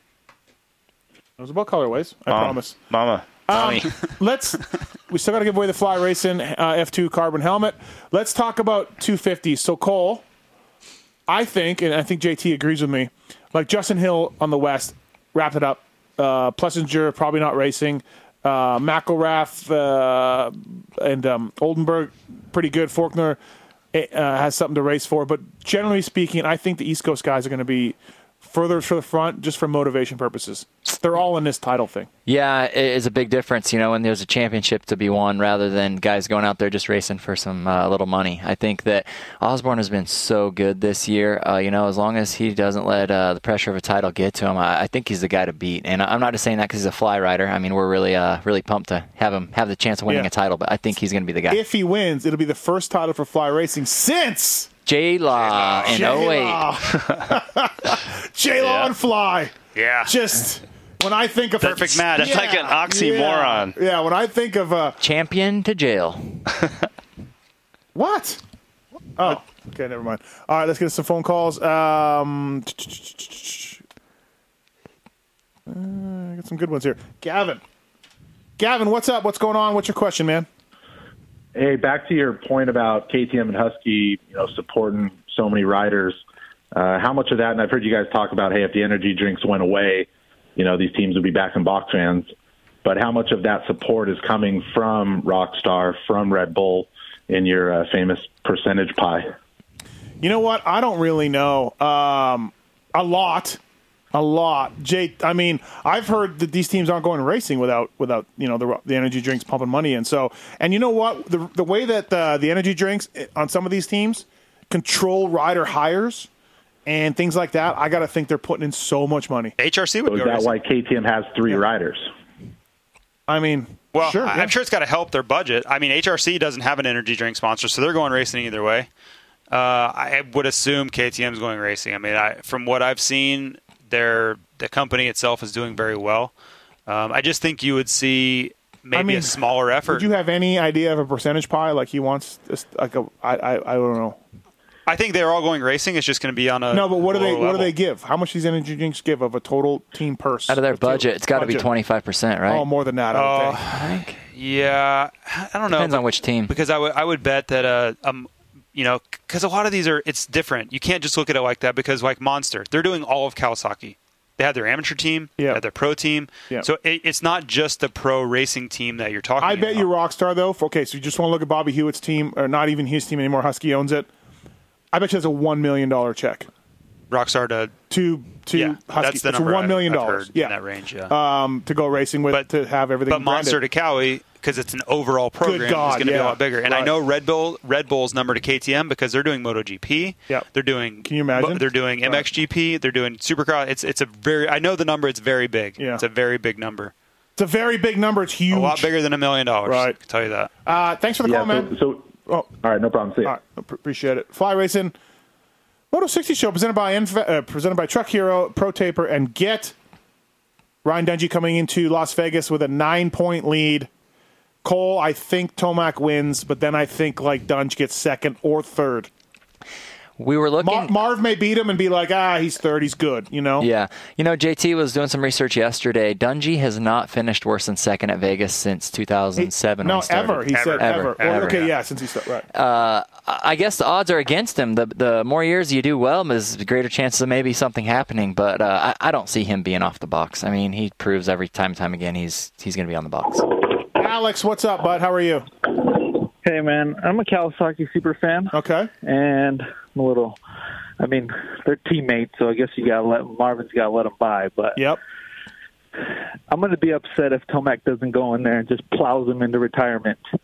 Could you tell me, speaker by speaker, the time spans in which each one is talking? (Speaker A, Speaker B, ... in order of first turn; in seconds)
Speaker A: 1.4-2.8, 3.5-10.2, 11.3-23.4, 23.9-32.1, 51.5-54.7, 55.9-65.0, 67.9-68.4, 69.2-73.8, 75.7-77.6, 78.6-80.5, 100.2-103.6, 104.1-116.3, 116.9-119.5, 123.3-124.5, 138.9-144.2, 146.7-151.7, 152.5-153.6, 169.4-174.1, 174.9-176.5, 177.9-180.5, 181.1-183.6, 185.4-186.9, 191.0-192.2, 195.8-196.0, 197.4-198.9, 199.7-199.9, 200.7-201.7, 203.2-204.9, 205.9-209.8, 210.8-213.9, 214.6-219.1, 220.6-223.7, 229.4-232.4, 243.9-245.5, 248.5-248.9
Speaker B: 2.3-3.9, 62.1-63.8
Speaker C: 32.3-51.6, 54.9-56.7, 65.0-66.4, 150.5-152.7, 153.7-154.2, 155.7-156.5, 220.2-220.9, 223.6-231.7, 232.5-243.5
Speaker D: 55.4-56.3, 59.8-60.1, 61.6-62.4, 119.6-120.5, 123.9-128.9, 129.5-136.3, 136.9-140.1, 144.9-147.7, 153.1-169.9, 177.1-177.8, 178.5-181.1, 183.1-196.9, 198.5-200.5, 230.5-231.7
Speaker E: 81.5-86.2, 86.8-92.3, 92.8-99.3, 120.1-122.1, 201.2-203.3
Speaker F: 245.8-250.4, 251.0-254.9, 256.5-260.2